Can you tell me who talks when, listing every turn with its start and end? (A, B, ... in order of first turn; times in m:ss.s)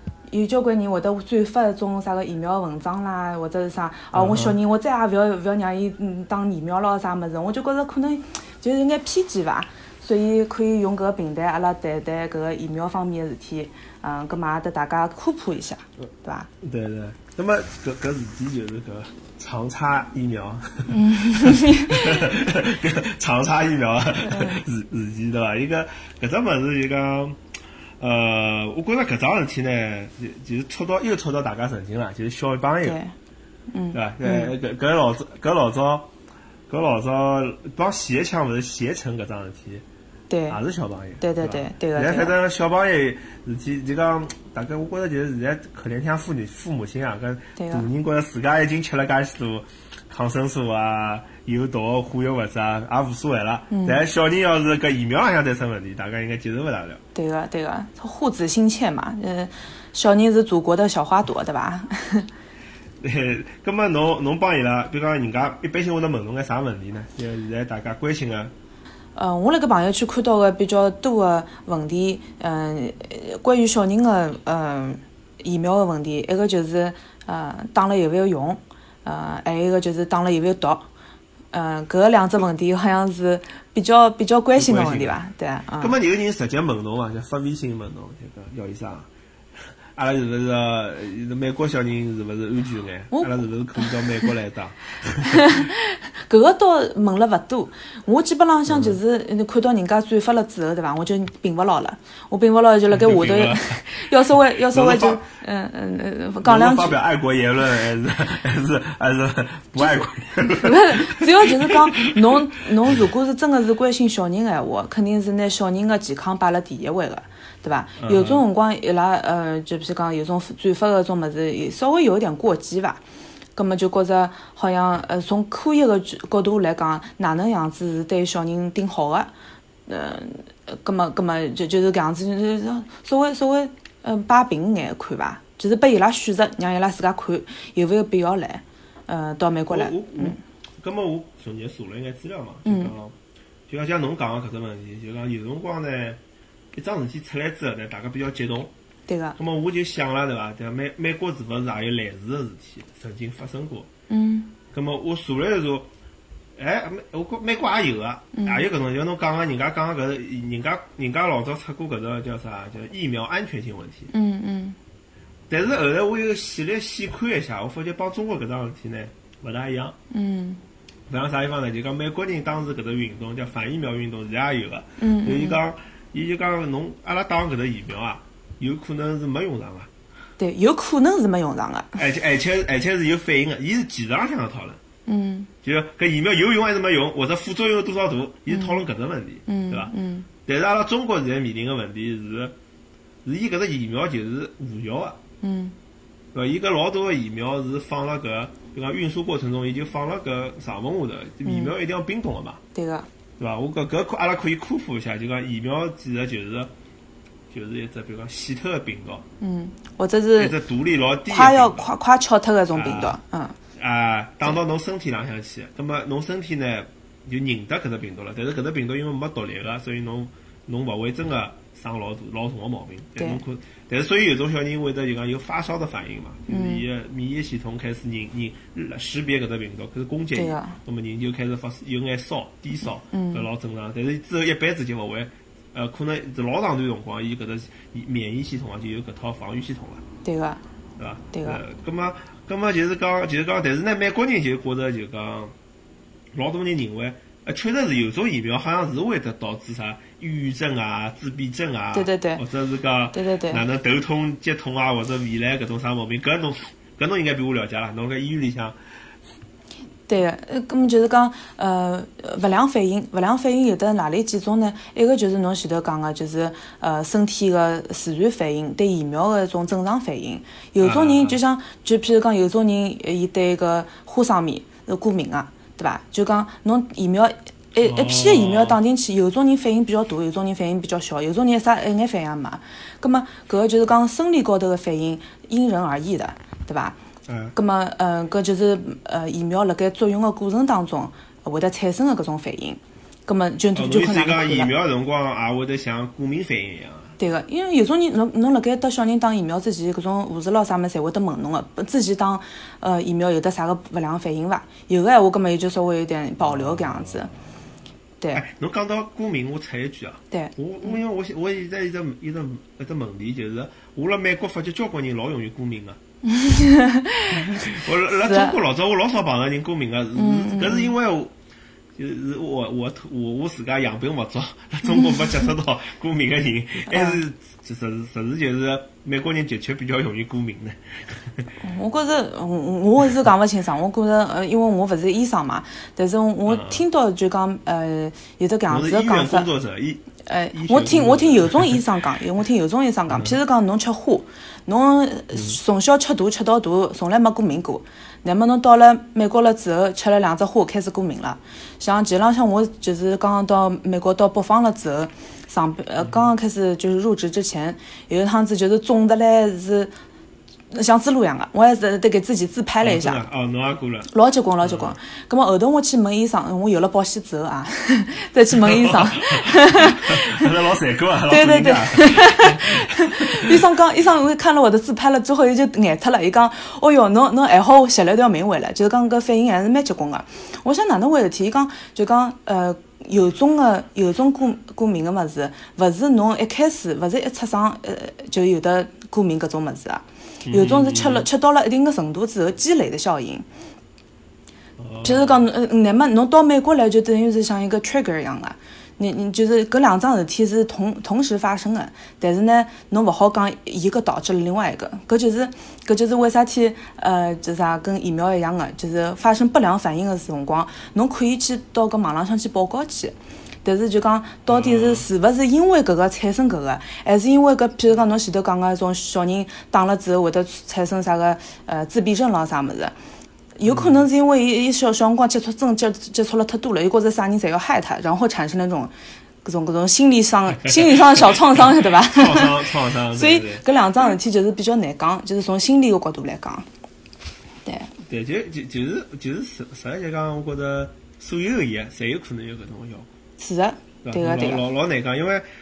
0:00.3-0:16.5 A
0:04.1-0:04.6 B
0:16.6-0:27.4 B
0:20.9-0:22.2 A
0:24.2-0:24.6 A
0:28.0-0:33.0 B
0:32.8-0:33.1 A
0:33.7-0:34.5 A
0:33.9-0:36.1 B
0:36.7-0:39.8 B
0:40.3-0:40.6 A
0:40.5-0:57.0 B
0:41.2-0:42.4 A
0:47.6-0:47.9 A
0:53.7-0:54.0 A
0:57.2-1:02.3 A
1:03.0-1:08.5 B
1:09.2-1:20.9 A
1:21.5-1:26.0 A
1:24.6-1:25.2 B
1:25.8-1:29.1 B
1:30.0-1:35.4 B
1:33.1-1:34.3 A
1:35.3-1:47.0 A
1:38.7-1:39.0 B
1:42.9-1:43.8 B
1:44.7-1:45.3 B
1:46.4-1:52.3 B
1:49.8-2:03.0 A
1:58.0-1:58.4 B
2:03.6-2:09.3 A
2:09.9-2:20.4 A
2:19.7-2:23.2 B
2:22.7-2:22.9 A
2:23.7-2:26.2 B
2:26.7-2:28.7 B
2:29.1-2:29.4 A
2:29.4-2:33.9 B
2:34.1-2:34.6 A
2:34.7-2:35.9 B
2:36.6-2:44.1 B
2:38.3-2:38.6 A
2:44.1-2:44.8 A
2:45.5-2:50.0 B
2:50.1-2:50.6 A
2:51.1-2:59.9 B
2:55.0-2:55.6 A
3:00.4-3:02.0 A
3:02.0-3:04.8 B
3:05.1-3:05.5 A
3:05.6-3:09.9 B
3:08.5-3:08.8 A
3:09.5-3:10.3 A
3:10.5-3:12.6 B
3:13.2-3:15.2 B
3:15.4-3:15.8 A
3:16.3-3:22.6 B
3:21.4-3:21.7 A
3:22.8-3:23.1 A
3:23.4-3:26.7 B
3:27.5-3:29.2 B
3:29.4-3:30.6 A
3:30.4-3:31.9 B
3:31.3-3:33.6 A
3:32.7-3:33.2 B
3:33.8-4:00.0 B
3:43.2-3:43.4 A
3:46.5-3:46.8 A
3:50.4-3:50.8 A
3:53.1-3:53.5 A
4:00.2-4:00.6 A
4:01.0-4:05.6 B
4:01.3-4:01.6 A
4:06.3-4:18.8 B
4:11.9-4:12.4 A
4:13.1-4:13.6 A
4:20.1-4:47.0 A
4:30.8-4:31.4 B
4:37.8-4:38.8 B
4:47.3-4:47.5 B
4:47.6-4:54.7 A
4:53.7-4:57.2 B
4:57.2-5:07.3 A
5:06.4-5:07.2 B
5:08.3-5:16.0 B
5:10.3-5:11.0 A
5:16.2-5:18.6 A
5:17.4-5:21.3 B
5:20.2-5:21.0 A
5:22.0-5:31.4 B
5:26.9-5:27.2 A
5:31.6-5:39.5 A
5:36.5-5:36.8 B
5:38.7-5:41.8 B
5:40.2-5:59.9 A
5:43.1-5:43.4 B
6:00.7-6:03.2 A
6:02.8-6:04.1 B
6:04.1-6:10.5 A
6:04.6-6:05.0 B
6:08.6-6:13.7 B
6:11.3-6:33.4 A
6:30.4-6:31.3 B
6:34.8-6:35.5 B
6:35.0-7:02.9 A
6:54.5-6:55.1 B
7:03.6-7:08.9 A
7:03.7-7:04.1 B
7:09.4-7:16.6 A
7:12.1-7:13.6 B
7:17.6-7:17.9 A
7:18.0-7:23.1 B
7:23.4-7:24.6 A
7:24.0-7:25.5 B